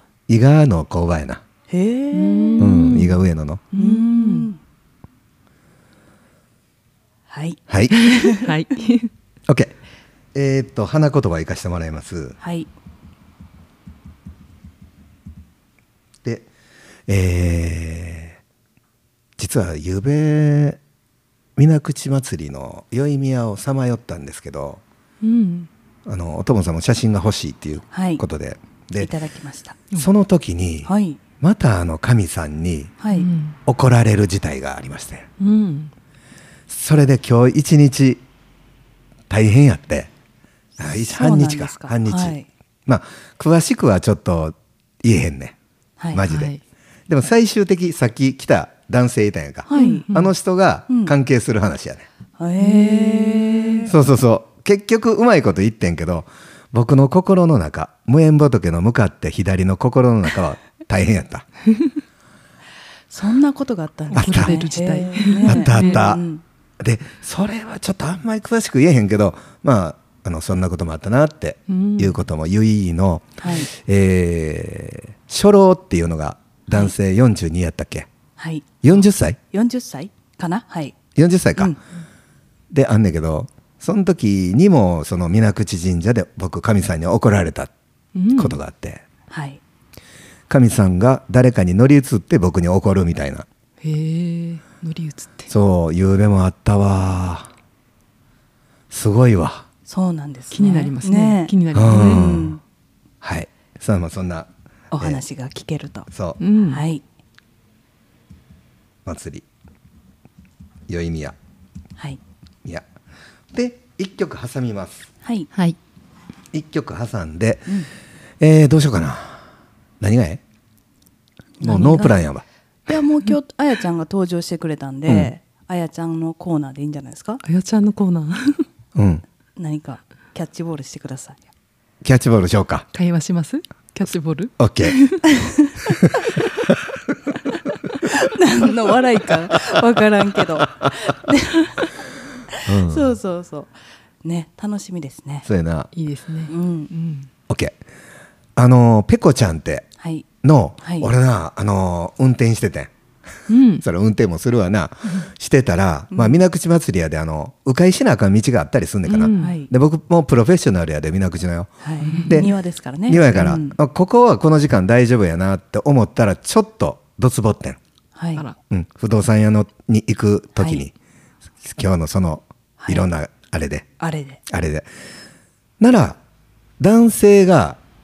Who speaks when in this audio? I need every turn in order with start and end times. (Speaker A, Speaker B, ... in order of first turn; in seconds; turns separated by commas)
Speaker A: 0.3-1.4, Speaker B: 1.7-2.8, Speaker C: 2.1-3.2, Speaker A: 2.6-3.6, Speaker C: 3.7-4.5, Speaker B: 3.7-4.6, Speaker B: 7.3-8.5, Speaker A: 7.7-8.0, Speaker C: 7.9-9.1, Speaker A: 9.5-9.7, Speaker A: 10.3-12.4, Speaker B: 12.4-12.7, Speaker A: 17.1-18.4, Speaker A: 19.4-20.8, Speaker A: 21.6-24.8, Speaker C: 25.2-25.7, Speaker A: 26.1-29.1, Speaker B: 27.9-28.2, Speaker B: 29.0-29.8, Speaker A: 29.9-32.9, Speaker B: 30.9-31.2, Speaker B: 33.0-33.3, Speaker C: 33.1-33.6, Speaker A: 33.7-35.3, Speaker C: 35.4-35.9, Speaker A: 36.7-38.2, Speaker A: 39.3-40.1, Speaker A: 40.8-42.4, Speaker B: 40.9-42.5, Speaker A: 42.9-45.6, Speaker A: 46.1-46.5, Speaker C: 46.2-46.6, Speaker A: 47.1-52.1, Speaker B: 49.7-50.1, Speaker C: 49.7-50.3, Speaker B: 50.9-51.1, Speaker B: 52.4-53.9, Speaker C: 52.6-53.9, Speaker A: 53.9-61.5, Speaker B: 63.1-66.4, Speaker A: 64.1-64.5, Speaker C: 64.1-66.0, Speaker A: 65.4-66.2, Speaker A: 66.8-78.1, Speaker C: 71.7-72.2, Speaker B: 73.4-73.7, Speaker B: 78.4-78.7, Speaker A: 78.8-79.4, Speaker B: 79.5-81.0, Speaker A: 81.2-81.8, Speaker A: 82.7-87.7, Speaker C: 88.2-88.6, Speaker A: 88.3-89.0, Speaker B: 89.3-89.6, Speaker A: 90.5-93.5, Speaker C: 93.8-95.5, Speaker A: 95.5-97.5, Speaker A: 98.9-99.7, Speaker B: 99.9-102.6, Speaker C: 100.5-102.4, Speaker A: 101.7-102.6, Speaker A: 103.2-104.5, Speaker B: 104.9-106.1, Speaker A: 106.1-106.4, Speaker C: 106.4-106.8, Speaker B: 106.7-107.0, Speaker A: 109.0-109.5, Speaker A: 110.9-111.3, Speaker A: 113.5-115.1, Speaker B: 115.2-115.5, Speaker A: 116.5-117.8, Speaker A: 118.4-119.4, Speaker A: 120.0-120.4, Speaker B: 121.6-122.2, Speaker A: 121.6-123.0, Speaker B: 122.9-127.4, Speaker C: 127.4-128.6, Speaker A: 129.0-129.2, Speaker B: 129.6-131.4, Speaker A: 132.0-132.9, Speaker C: 132.9-135.2, Speaker A: 134.6-135.0, Speaker B: 135.3-136.0, Speaker A: 135.9-136.2, Speaker B: 138.0-141.9, Speaker B: 142.5-145.5, Speaker A: 142.7-143.1, Speaker A: 145.5-145.9, Speaker C: 145.9-147.3, Speaker B: 146.5-146.9, Speaker A: 147.5-147.8, Speaker A: 148.6-149.9, Speaker B: 150.0-150.3, Speaker A: 150.4-152.9, Speaker B: 150.8-151.1, Speaker C: 153.5-153.8, Speaker A: 153.8-162.5, Speaker B: 156.1-156.4, Speaker C: 159.1-159.6, Speaker B: 159.4-159.7, Speaker B: 161.8-163.8, Speaker C: 162.1-162.5, Speaker A: 163.1-167.8, Speaker B: 168.2-168.5, Speaker A: 168.7-170.9, Speaker B: 170.6-170.9, Speaker A: 171.6-173.9, Speaker B: 172.8-173.1, Speaker B: 174.0-174.4, Speaker A: 174.5-174.9, Speaker A: 175.8-176.2, Speaker A: 176.8-177.8